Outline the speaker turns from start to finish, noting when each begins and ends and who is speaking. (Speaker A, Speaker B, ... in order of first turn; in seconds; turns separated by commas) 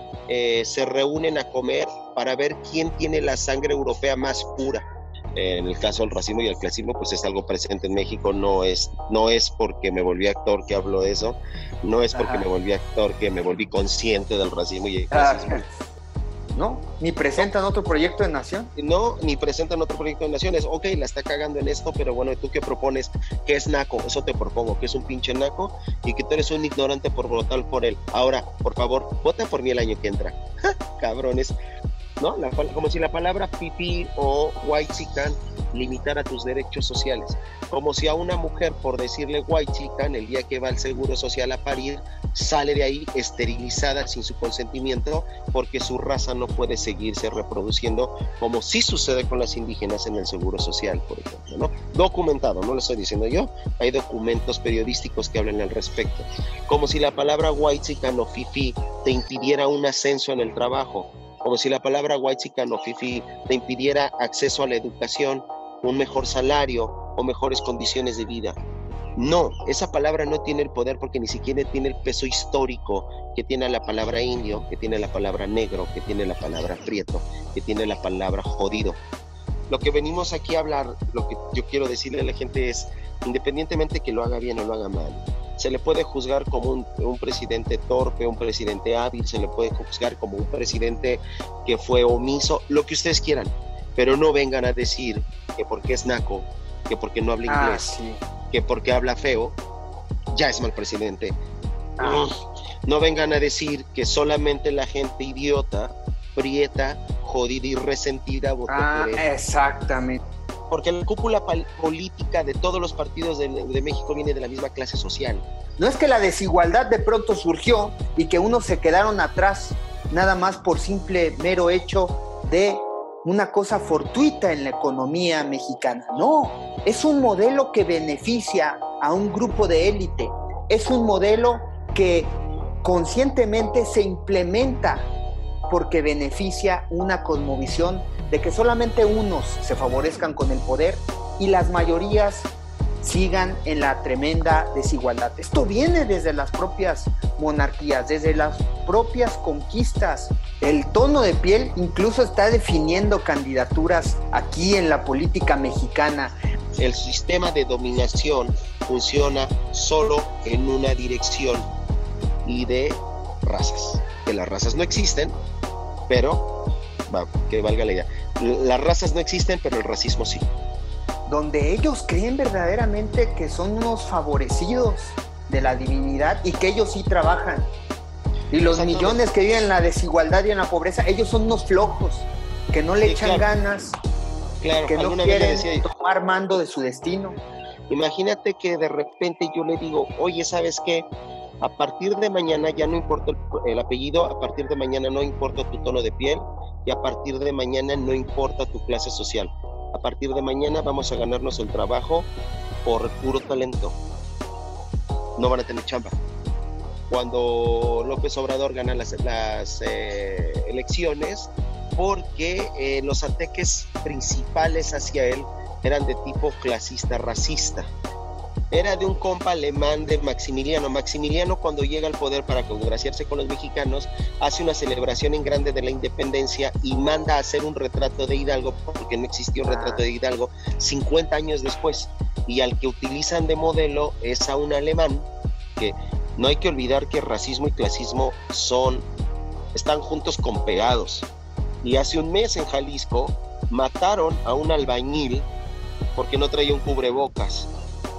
Speaker A: 0.3-4.8, Speaker A: 5.3-15.6, Speaker B: 12.1-12.5, Speaker B: 15.1-15.7, Speaker B: 16.5-18.7, Speaker A: 18.8-31.6, Speaker A: 32.2-68.6, Speaker A: 69.2-79.0, Speaker A: 79.7-97.9, Speaker B: 97.5-98.2, Speaker A: 98.5-99.6, Speaker A: 100.3-101.4, Speaker B: 102.0-102.4, Speaker A: 102.0-109.2, Speaker B: 108.7-110.2, Speaker A: 110.7-115.5, Speaker B: 115.8-135.1, Speaker B: 135.7-156.3, Speaker A: 156.8-161.7, Speaker A: 162.4-165.4, Speaker A: 166.1-166.5, Speaker A: 167.1-170.5, Speaker B: 171.3-177.7, Speaker B: 178.5-184.0, Speaker A: 178.7-179.2, Speaker A: 183.0-183.5, Speaker A: 184.6-185.8, Speaker B: 184.9-187.4, Speaker A: 187.9-191.1, Speaker A: 191.6-202.3, Speaker A: 202.8-204.0, Speaker A: 205.4-206.2, Speaker A: 207.1-217.9, Speaker A: 218.7-239.1, Speaker B: 229.7-230.0, Speaker A: 239.7-241.3, Speaker A: 241.8-245.5, Speaker A: 246.2-247.7